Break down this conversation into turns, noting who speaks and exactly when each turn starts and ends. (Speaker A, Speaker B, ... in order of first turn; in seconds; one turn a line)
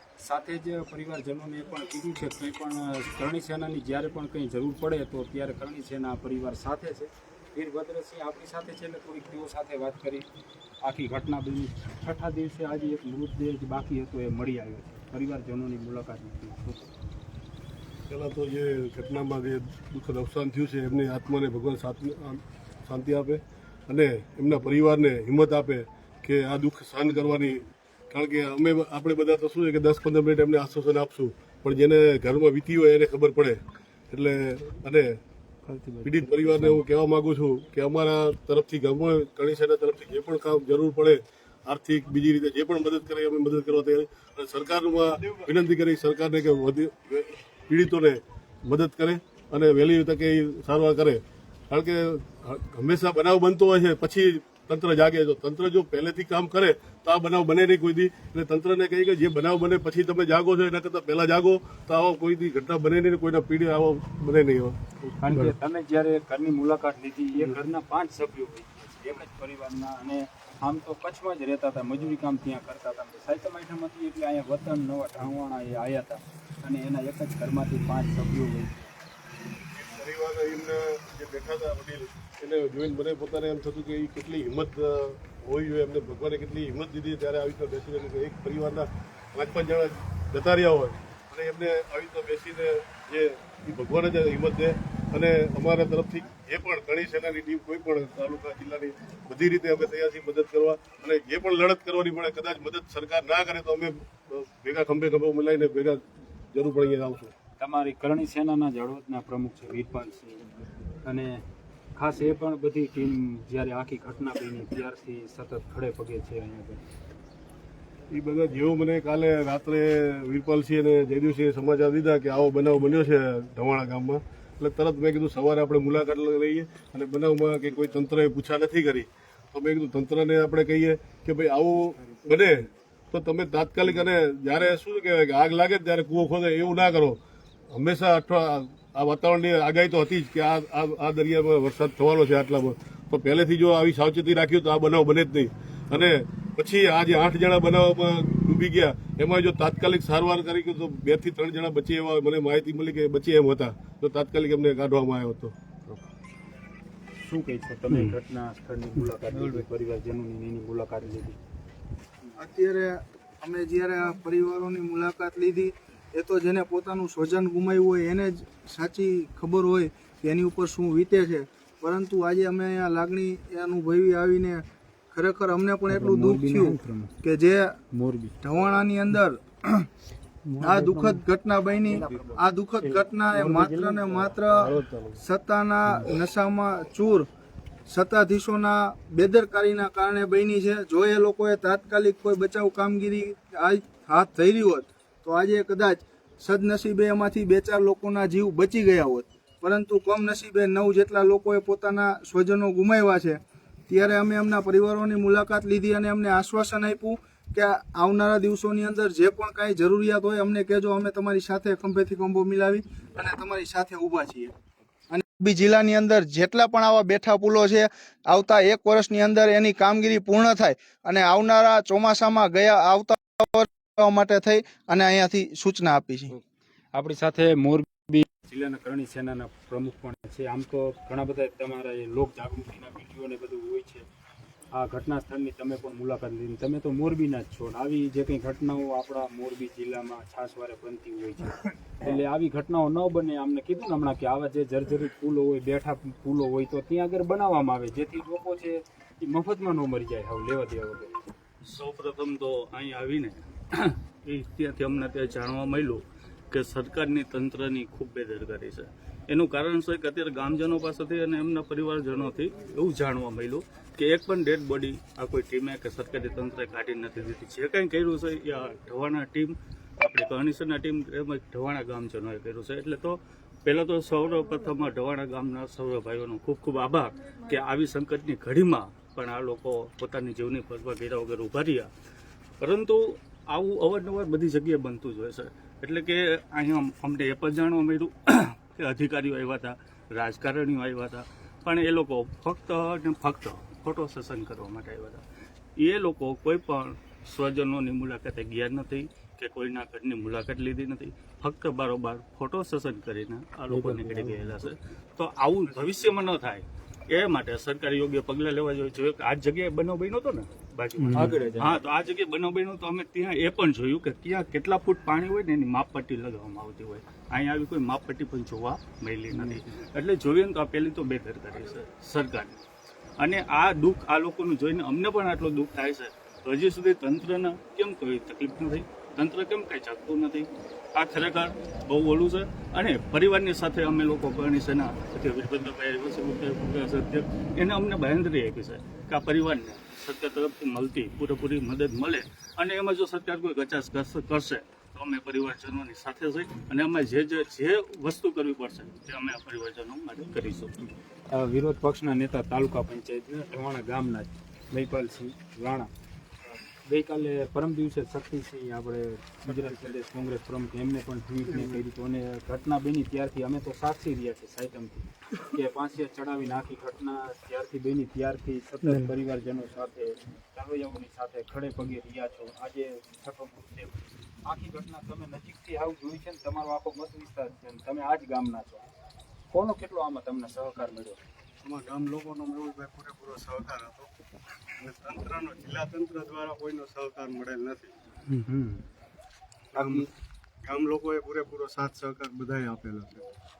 Speaker A: 0.2-10.3
Speaker A: 10.8-16.9
Speaker B: 18.1-35.2
Speaker B: 36.0-65.4
Speaker C: 45.2-45.5
Speaker A: 65.2-78.9
Speaker B: 79.7-106.0
Speaker B: 106.5-107.3
Speaker A: 107.6-110.5
Speaker A: 111.0-111.4
Speaker A: 112.0-116.8
Speaker B: 118.1-137.2
Speaker B: 137.7-155.6
Speaker A: 157.2-161.4
Speaker D: 162.4-177.8
Speaker A: 175.9-177.2
Speaker A: 177.9-178.4
Speaker D: 178.4-179.9
Speaker D: 180.6-187.3
Speaker A: 180.6-181.0
Speaker A: 181.9-182.4
Speaker B: 184.6-184.9
Speaker D: 187.9-214.5
Speaker D: 215.1-226.3
Speaker A: 226.9-234.1
Speaker A: 234.7-251.2
Speaker E: 251.7-281.9
Speaker E: 282.6-295.2
Speaker E: 295.8-322.6
Speaker A: 303.7-304.7
Speaker A: 311.1-311.8
Speaker A: 319.3-319.6
Speaker E: 323.2-350.7
Speaker A: 351.3-355.9
Speaker A: 356.5-378.9
Speaker C: 359.5-359.9
Speaker C: 361.5-361.8
Speaker A: 379.5-381.2
Speaker C: 381.6-384.1
Speaker C: 384.8-387.9
Speaker A: 388.3-388.8
Speaker C: 389.7-390.1
Speaker A: 389.8-390.1
Speaker C: 390.6-393.3